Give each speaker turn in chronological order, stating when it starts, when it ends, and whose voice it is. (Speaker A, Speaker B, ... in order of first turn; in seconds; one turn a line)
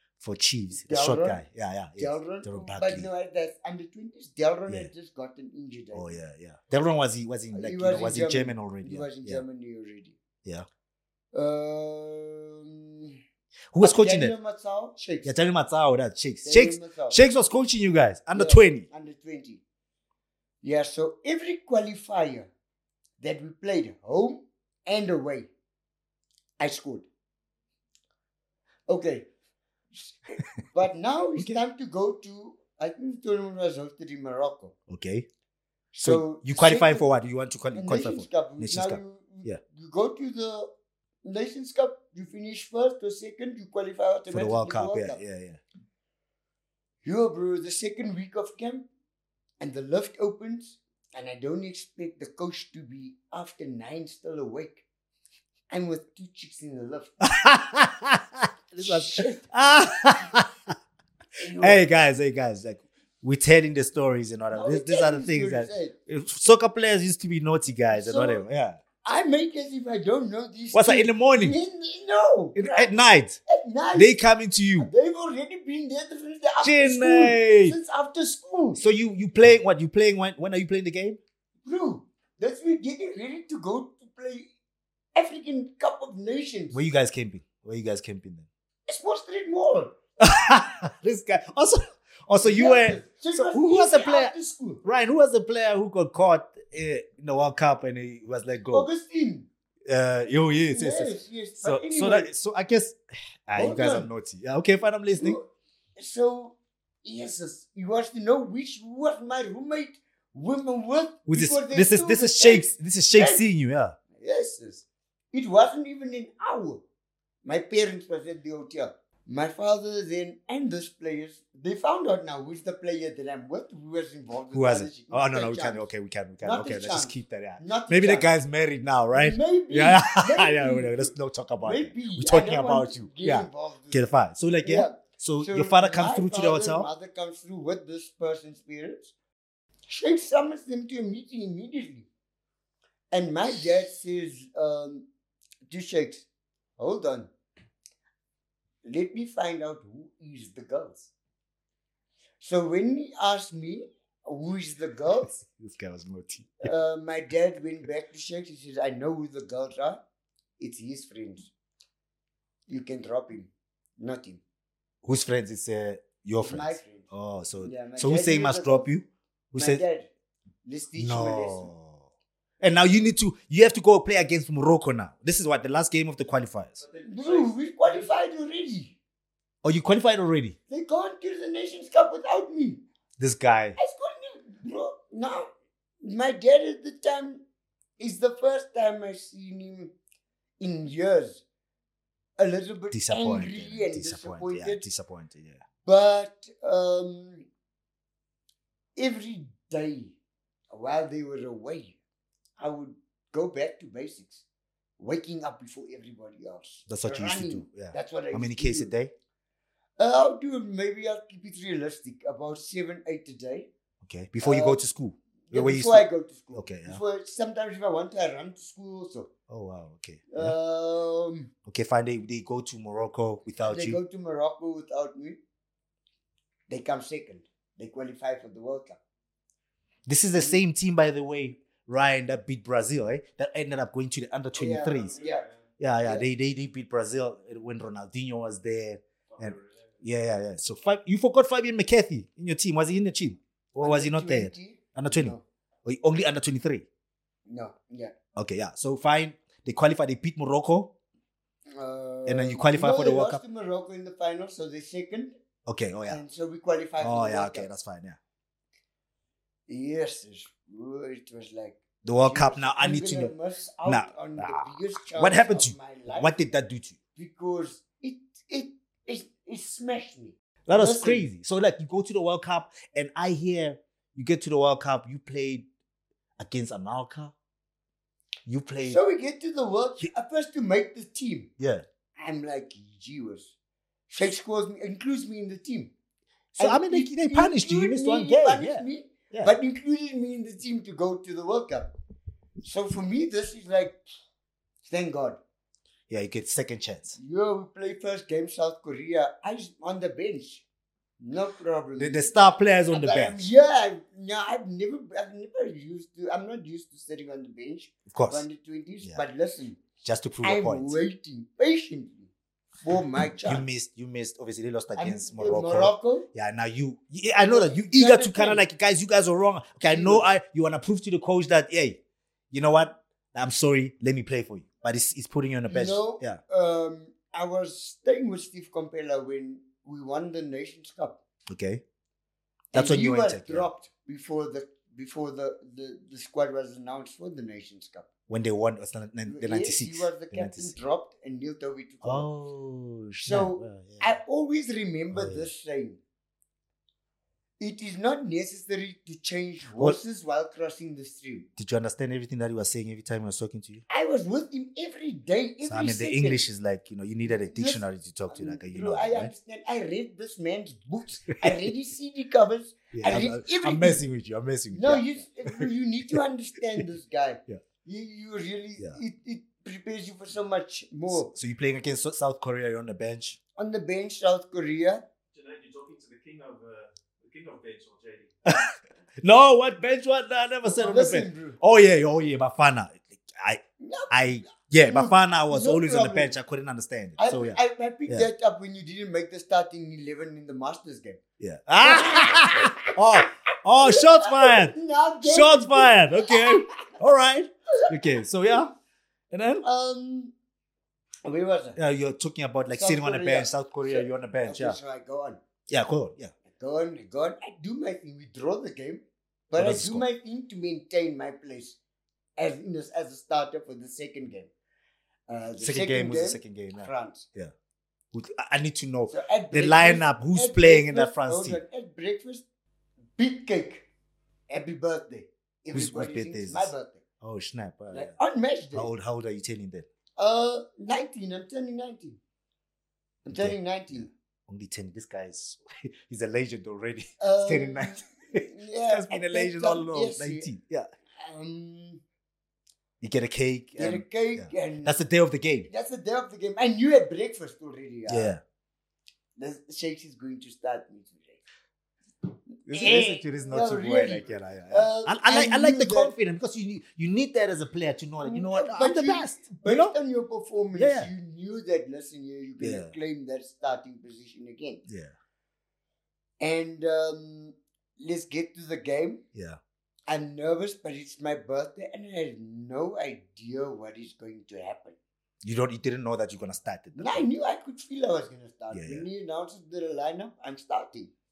Speaker A: 0.2-3.1
Speaker B: 0.7-1.4
Speaker B: 2.0-6.2
Speaker A: 5.9-9.4
Speaker B: 7.5-10.2
Speaker B: 11.3-13.2
Speaker A: 13.7-14.3
Speaker B: 13.8-15.3
Speaker A: 15.2-18.9
Speaker B: 16.4-17.2
Speaker B: 18.3-19.6
Speaker B: 20.6-22.5
Speaker B: 23.2-25.5
Speaker B: 26.6-27.1
Speaker B: 28.9-29.3
Speaker B: 29.9-34.7
Speaker A: 34.9-35.2
Speaker B: 35.9-37.0
Speaker A: 36.0-39.6
Speaker B: 37.7-40.7
Speaker B: 41.2-45.2
Speaker A: 44.3-45.6
Speaker B: 47.0-48.9
Speaker B: 49.6-54.8
Speaker B: 55.7-57.2
Speaker A: 57.2-60.5
Speaker B: 58.8-59.4
Speaker B: 61.4-61.8
Speaker A: 61.6-68.8
Speaker B: 64.5-65.9
Speaker B: 67.9-68.4
Speaker B: 69.0-72.9
Speaker A: 70.7-71.6
Speaker A: 72.5-73.4
Speaker B: 73.5-74.2
Speaker A: 74.0-74.9
Speaker B: 74.8-78.8
Speaker A: 76.6-77.8
Speaker A: 78.8-81.2
Speaker B: 81.7-84.5
Speaker B: 85.1-86.8
Speaker A: 86.7-88.5
Speaker B: 88.9-90.0
Speaker A: 90.2-98.9
Speaker B: 92.4-94.8
Speaker B: 98.7-99.5
Speaker A: 99.9-105.4
Speaker B: 100.7-102.3
Speaker B: 103.6-104.1
Speaker B: 105.1-105.4
Speaker B: 106.0-113.4
Speaker A: 111.3-114.0
Speaker B: 114.1-116.8
Speaker B: 117.4-125.9
Speaker A: 124.5-136.9
Speaker B: 126.4-128.3
Speaker B: 129.1-131.1
Speaker B: 131.6-134.1
Speaker B: 134.6-139.1
Speaker B: 139.9-142.1
Speaker B: 143.1-145.1
Speaker B: 145.7-146.2
Speaker B: 146.8-147.3
Speaker B: 148.8-151.1
Speaker B: 152.4-155.4
Speaker A: 155.2-156.7
Speaker B: 156.6-160.0
Speaker B: 160.6-161.5
Speaker B: 162.7-164.4
Speaker A: 165.0-169.8
Speaker B: 166.4-167.1
Speaker B: 167.6-168.9
Speaker B: 169.6-170.1
Speaker B: 170.6-171.7
Speaker A: 171.0-172.1
Speaker A: 172.6-176.8
Speaker C: 176.8-178.2
Speaker B: 177.0-178.9
Speaker A: 179.6-180.6
Speaker B: 180.7-182.8
Speaker A: 183.2-183.8
Speaker B: 183.8-185.5
Speaker B: 186.0-187.4
Speaker B: 188.0-189.9
Speaker B: 190.6-191.4
Speaker B: 192.4-194.8
Speaker A: 192.9-195.6
Speaker B: 195.8-197.4
Speaker B: 198.9-200.1
Speaker B: 200.7-202.0
Speaker B: 202.6-204.4
Speaker B: 205.0-208.9
Speaker A: 206.9-209.1
Speaker B: 210.0-213.7
Speaker A: 214.0-217.0
Speaker B: 214.4-214.8
Speaker B: 215.5-219.3
Speaker A: 219.5-220.5
Speaker B: 220.3-221.5
Speaker A: 221.7-224.0
Speaker B: 223.7-225.4
Speaker B: 226.7-229.0
Speaker A: 230.1-235.2
Speaker B: 234.6-235.5
Speaker A: 235.8-246.8
Speaker C: 239.3-239.8
Speaker B: 243.8-245.4
Speaker B: 247.5-248.1
Speaker A: 248.3-250.9
Speaker B: 251.7-255.3
Speaker A: 252.2-253.4
Speaker A: 255.7-256.2
Speaker B: 256.1-257.7
Speaker A: 257.0-258.2
Speaker B: 259.7-266.3
Speaker A: 262.0-263.3
Speaker A: 263.8-267.0
Speaker B: 267.1-271.3
Speaker A: 270.7-275.6
Speaker A: 276.4-277.3
Speaker A: 278.4-279.0
Speaker B: 278.9-281.5
Speaker A: 281.6-281.8
Speaker B: 282.2-283.5
Speaker B: 284.1-285.9
Speaker A: 286.5-289.5
Speaker B: 286.6-291.9
Speaker B: 292.6-294.0
Speaker B: 294.8-295.4
Speaker A: 296.1-297.2
Speaker B: 297.2-300.6
Speaker B: 301.2-302.3
Speaker A: 302.0-303.5
Speaker B: 302.9-309.8
Speaker A: 308.1-308.4
Speaker A: 310.0-311.0
Speaker B: 310.4-312.3
Speaker B: 312.8-313.6
Speaker A: 313.4-322.0
Speaker B: 314.9-316.3
Speaker B: 317.4-318.6
Speaker B: 319.9-320.2
Speaker A: 322.5-326.4
Speaker B: 325.7-331.2
Speaker A: 331.5-331.8
Speaker A: 332.7-333.7
Speaker B: 332.7-338.1
Speaker A: 338.3-340.8
Speaker B: 339.2-342.3
Speaker A: 342.0-344.1
Speaker B: 343.2-346.0
Speaker A: 345.1-345.5
Speaker B: 347.6-351.5
Speaker A: 351.6-353.8
Speaker B: 353.9-356.5
Speaker A: 355.6-359.3
Speaker B: 357.2-364.0
Speaker A: 361.3-361.6
Speaker A: 362.9-366.2
Speaker B: 364.7-371.3
Speaker A: 371.1-373.4
Speaker B: 373.6-375.0
Speaker C: 375.3-378.3
Speaker A: 379.2-388.3
Speaker B: 380.6-381.6
Speaker B: 383.8-386.4
Speaker B: 387.2-391.2
Speaker A: 391.4-398.7
Speaker B: 391.8-393.2
Speaker B: 393.8-396.8
Speaker B: 397.7-398.2
Speaker A: 399.3-399.6
Speaker B: 399.6-400.3
Speaker B: 401.2-401.8
Speaker A: 401.8-404.8
Speaker B: 402.7-405.4
Speaker A: 405.7-406.3
Speaker B: 406.5-411.8
Speaker A: 409.6-410.0
Speaker B: 412.4-414.5
Speaker B: 415.3-417.3
Speaker A: 415.6-417.5
Speaker A: 418.1-421.6
Speaker B: 419.1-422.4
Speaker B: 423.2-423.9
Speaker B: 424.5-427.0
Speaker A: 425.7-428.1
Speaker B: 427.9-428.9
Speaker A: 428.7-429.9
Speaker B: 430.2-432.2
Speaker B: 433.2-434.1
Speaker A: 433.3-440.9
Speaker B: 437.2-440.5
Speaker B: 441.2-442.0
Speaker A: 443.0-445.7
Speaker B: 443.8-444.9
Speaker B: 445.7-448.3
Speaker A: 448.1-448.4
Speaker B: 449.4-451.4
Speaker B: 452.6-456.1
Speaker A: 452.7-459.9
Speaker B: 458.2-464.8
Speaker A: 460.7-461.1
Speaker A: 462.6-462.9
Speaker A: 464.9-465.1
Speaker B: 466.4-469.2
Speaker A: 469.3-469.6
Speaker B: 470.1-475.0
Speaker A: 475.4-477.2
Speaker B: 476.9-481.1
Speaker A: 478.7-479.1